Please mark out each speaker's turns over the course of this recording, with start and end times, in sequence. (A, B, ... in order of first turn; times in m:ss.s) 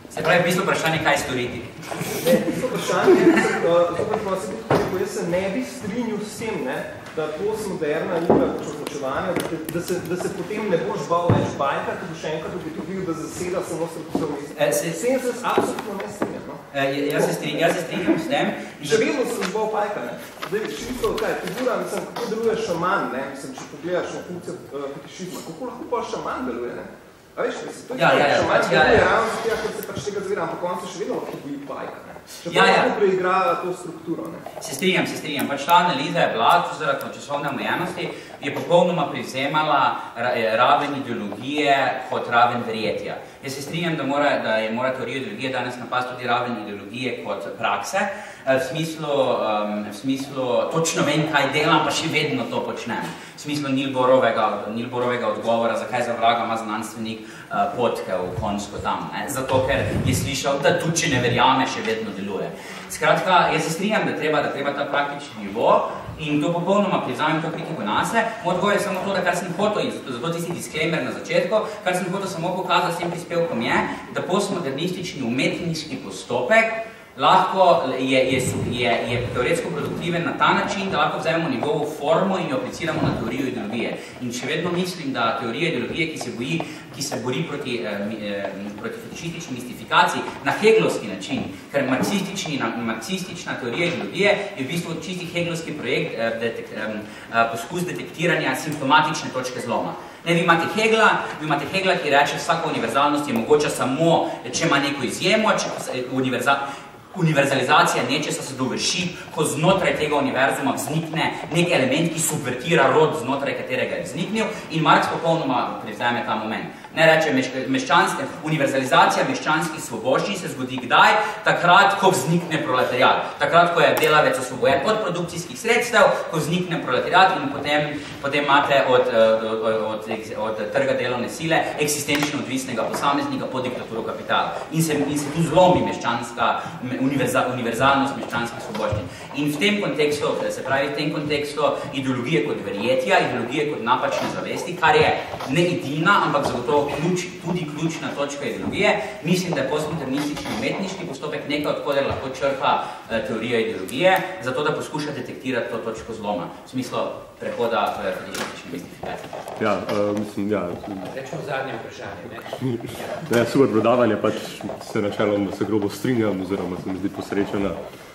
0:00.1-0:03.5 A
0:02.2-0:16.6 B
0:14.6-0:15.0 A
0:16.7-0:19.1 A
0:17.1-0:18.2 B
0:18.8-0:34.4 B
0:27.9-0:29.2 A
0:32.5-0:32.9 A
0:34.6-2:39.4 A
2:39.6-2:41.1 C
2:41.1-2:43.3 D
2:42.6-2:47.8 C